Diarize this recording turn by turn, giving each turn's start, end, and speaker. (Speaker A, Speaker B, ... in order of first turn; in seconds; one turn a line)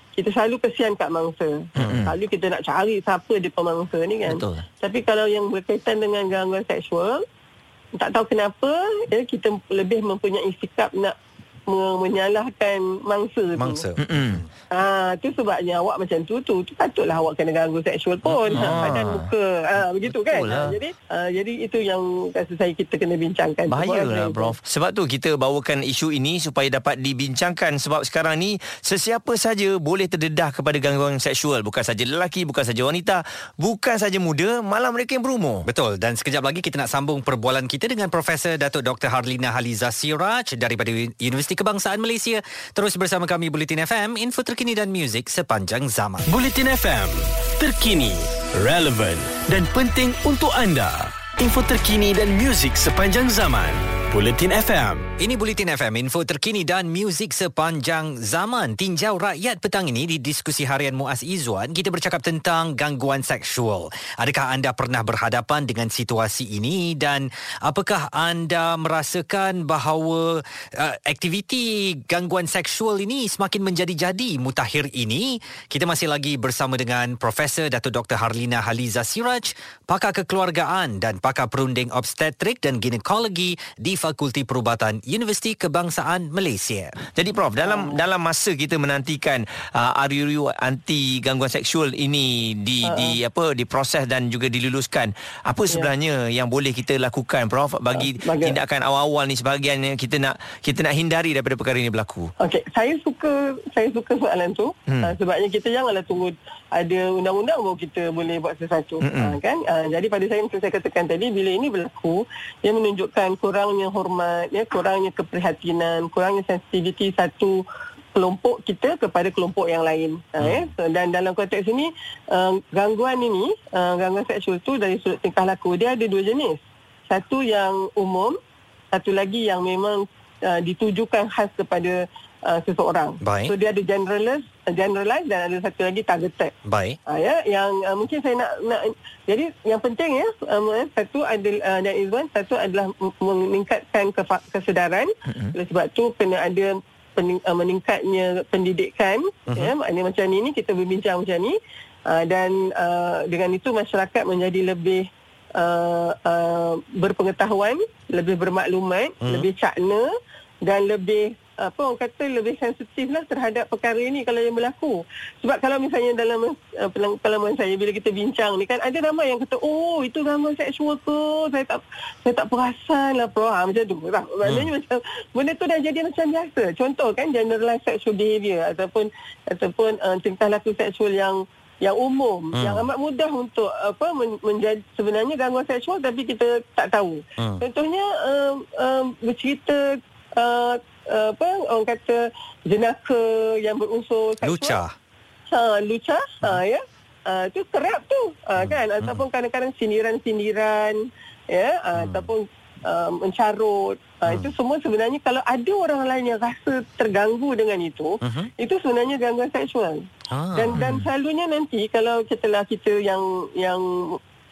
Speaker A: 0.1-7.2
Speaker B: 1.8-2.1
Speaker C: 1.8-2.1
Speaker C: 4.3-4.6
Speaker A: 8.0-11.1
Speaker A: 11.7-13.8
Speaker B: 13.6-14.5
Speaker C: 14.0-14.4
Speaker A: 14.7-24.5
Speaker C: 18.3-19.3
Speaker B: 18.6-18.9
Speaker C: 20.1-20.8
Speaker C: 23.7-35.6
Speaker B: 35.6-46.3
Speaker D: 46.3-55.1
Speaker B: 55.2-87.0
Speaker C: 87.1-102.3
Speaker A: 87.6-88.0
Speaker A: 92.8-93.2
Speaker A: 98.0-98.5
Speaker A: 102.4-117.6
Speaker C: 109.0-109.4
Speaker A: 118.1-126.6
Speaker A: 127.1-128.4
Speaker A: 128.9-136.5
Speaker B: 133.2-133.5
Speaker B: 136.7-137.0
Speaker A: 137.1-151.6
Speaker B: 149.5-149.7
Speaker A: 152.1-160.1
Speaker B: 159.2-159.5
Speaker A: 160.6-194.8
Speaker B: 182.5-182.9
Speaker B: 187.4-187.6
Speaker B: 194.4-194.9
Speaker A: 195.5-210.0
Speaker B: 198.6-199.2
Speaker B: 201.9-202.3
Speaker B: 208.2-208.5
Speaker B: 210.3-210.8
Speaker A: 210.5-214.2